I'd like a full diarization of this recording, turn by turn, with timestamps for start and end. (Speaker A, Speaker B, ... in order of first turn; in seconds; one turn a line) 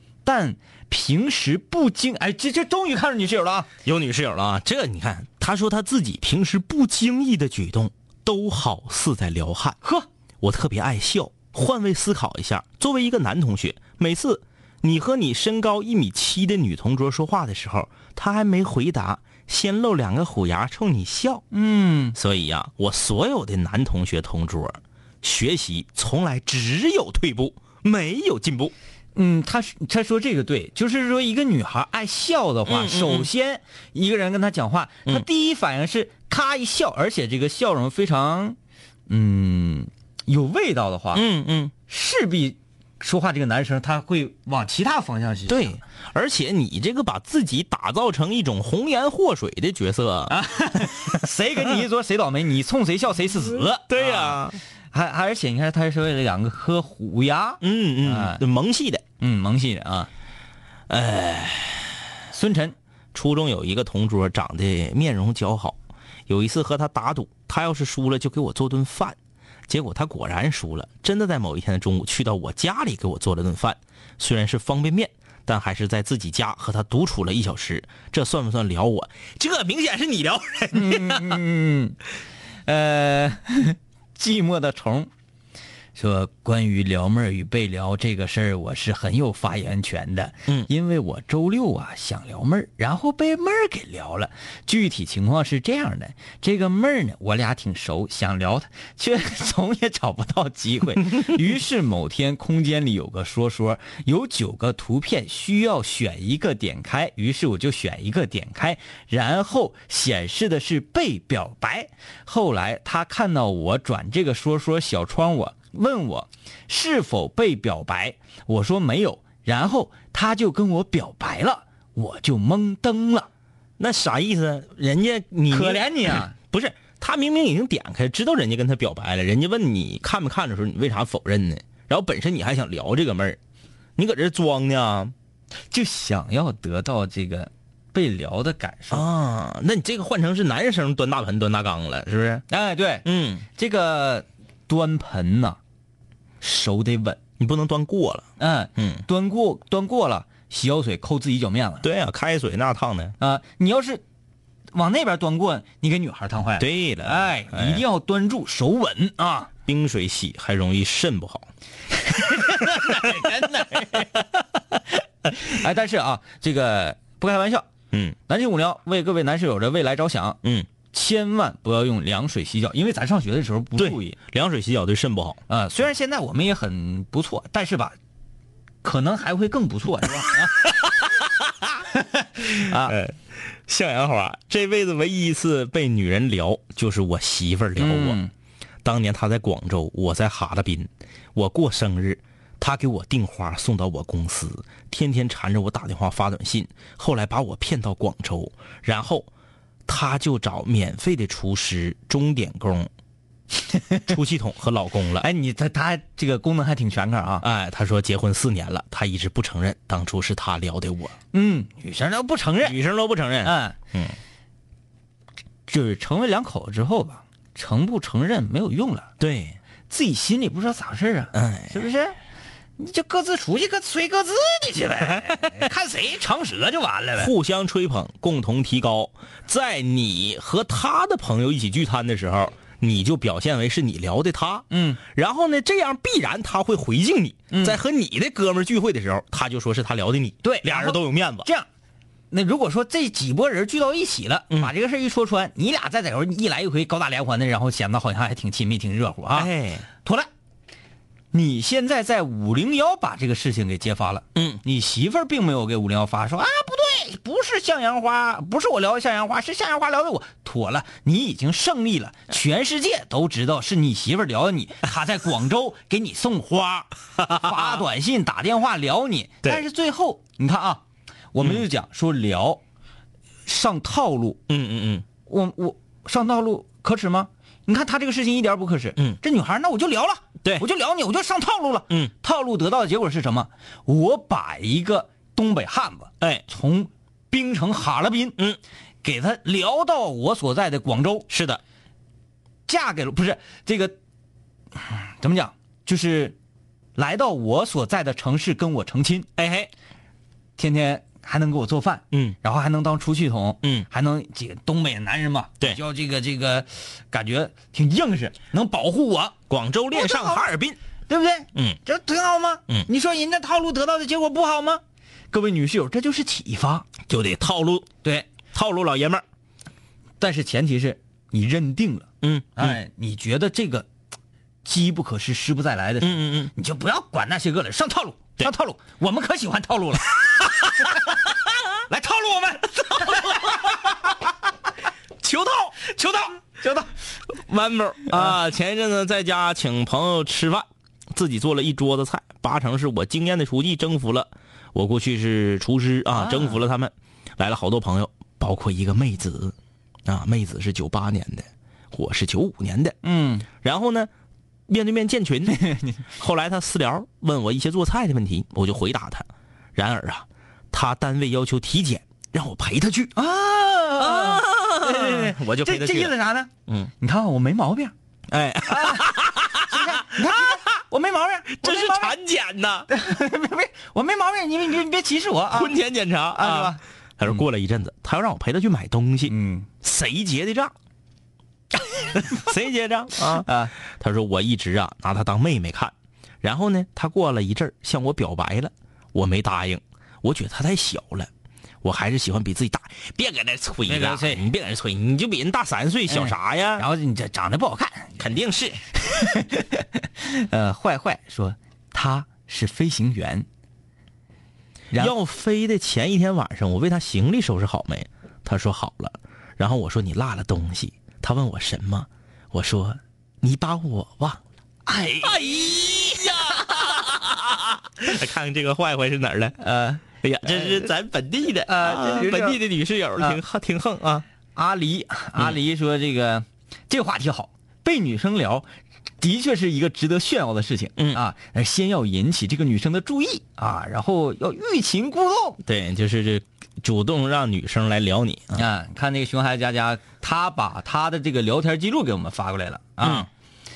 Speaker A: 0.2-3.7
Speaker B: 3.8-9.8
Speaker B: 10.4-21.4
Speaker A: 21.5-22.2
Speaker B: 22.1-28.7
Speaker A: 29.1-38.6
Speaker B: 32.7-33.3
Speaker A: 39.1-41.2
Speaker B: 41.1-41.7
Speaker A: 41.9-45.8
Speaker B: 45.5-51.2
Speaker A: 50.3-58.4
Speaker B: 53.9-54.6
Speaker B: 57.6-59.0
Speaker A: 59.2-60.1
Speaker B: 60.9-62.0
Speaker A: 62.3-62.8
Speaker B: 63.1-69.2
Speaker B: 69.7-81.4
Speaker A: 80.7-82.0
Speaker A: 82.7-85.1
Speaker A: 86.0-123.3
Speaker B: 123.8-133.4
Speaker A: 125.5-126.3
Speaker B: 134.0-135.1
Speaker A: 135.7-139.1
Speaker B: 138.9-142.4
Speaker A: 142.5-145.6
Speaker B: 143.0-143.4
Speaker A: 146.4-147.2
Speaker B: 147.4-148.2
Speaker A: 148.4-151.8
Speaker B: 148.8-149.0
Speaker B: 151.8-153.2
Speaker A: 153.2-154.0
Speaker A: 154.7-159.5
Speaker B: 156.6-157.8
Speaker B: 159.7-161.5
Speaker A: 162.1-164.3
Speaker B: 162.4-163.3
Speaker A: 164.9-167.7
Speaker B: 167.9-168.2
Speaker A: 168.3-170.4
Speaker B: 170.4-170.7
Speaker A: 170.9-174.2
Speaker B: 173.8-175.4
Speaker A: 175.5-177.9
Speaker A: 178.8-180.7
Speaker B: 181.0-181.7
Speaker A: 181.9-182.9
Speaker B: 182.4-188.2
Speaker A: 187.8-188.3
Speaker B: 188.8-199.3
Speaker B: 199.9-202.9
Speaker A: 203.7-204.0
Speaker B: 204.1-205.3
Speaker A: 205.2-207.4
Speaker B: 207.4-211.2
Speaker A: 211.3-212.8
Speaker B: 212.6-214.2
Speaker A: 213.4-213.7
Speaker A: 215.7-219.1
Speaker B: 219.2-219.6
Speaker A: 219.9-222.2
Speaker B: 221.3-221.8
Speaker A: 222.8-227.3
Speaker B: 225.3-225.6
Speaker B: 227.2-241.5
Speaker A: 234.7-235.0
Speaker A: 237.5-237.8
Speaker A: 240.4-241.7
Speaker A: 242.3-249.5
Speaker B: 249.3-249.9
Speaker A: 250.0-250.3
Speaker A: 251.3-270.8
Speaker B: 254.3-254.6
Speaker B: 267.2-267.8
Speaker A: 271.3-272.6
Speaker B: 271.4-271.6
Speaker A: 273.4-274.4
Speaker B: 274.5-275.0
Speaker A: 275.3-288.4
Speaker A: 289.0-291.3
Speaker B: 291.3-291.6
Speaker A: 292.7-293.9
Speaker A: 294.8-296.4
Speaker A: 296.9-299.3
Speaker B: 299.4-299.7
Speaker A: 300.6-309.3
Speaker B: 309.5-310.8
Speaker A: 309.9-310.5
Speaker A: 311.1-314.8
Speaker A: 315.3-316.9
Speaker B: 317.1-317.9
Speaker B: 318.5-319.2
Speaker A: 320.2-323.9
Speaker B: 322.2-322.8
Speaker A: 324.6-330.9
Speaker B: 326.0-326.5
Speaker A: 331.9-333.7
Speaker B: 333.0-333.7
Speaker B: 335.2-335.8
Speaker A: 335.8-336.9
Speaker B: 337.3-349.5
Speaker A: 346.1-346.6
Speaker B: 350.1-353.0
Speaker A: 353.0-353.4
Speaker B: 353.6-354.1
Speaker B: 354.7-355.6
Speaker A: 355.5-356.0
Speaker B: 356.1-363.1
Speaker A: 363.1-367.9
Speaker B: 364.0-366.1
Speaker B: 368.3-370.6
Speaker A: 368.7-372.1
Speaker B: 371.5-372.9
Speaker A: 372.9-375.8
Speaker B: 375.5-380.7
Speaker A: 376.3-377.4
Speaker A: 379.3-379.7
Speaker B: 382.1-391.3
Speaker A: 383.1-383.7
Speaker B: 391.8-396.9
Speaker A: 393.9-394.4
Speaker A: 396.1-398.2
Speaker B: 398.2-398.8
Speaker A: 399.0-403.4
Speaker B: 404.9-414.4
Speaker A: 414.9-415.4
Speaker B: 415.2-419.6
Speaker A: 419.6-420.9
Speaker B: 420.2-424.2
Speaker A: 421.6-422.6
Speaker A: 424.5-428.7
Speaker A: 429.2-435.6
Speaker B: 431.0-431.2
Speaker B: 435.6-438.6
Speaker A: 438.5-443.3
Speaker B: 443.0-443.3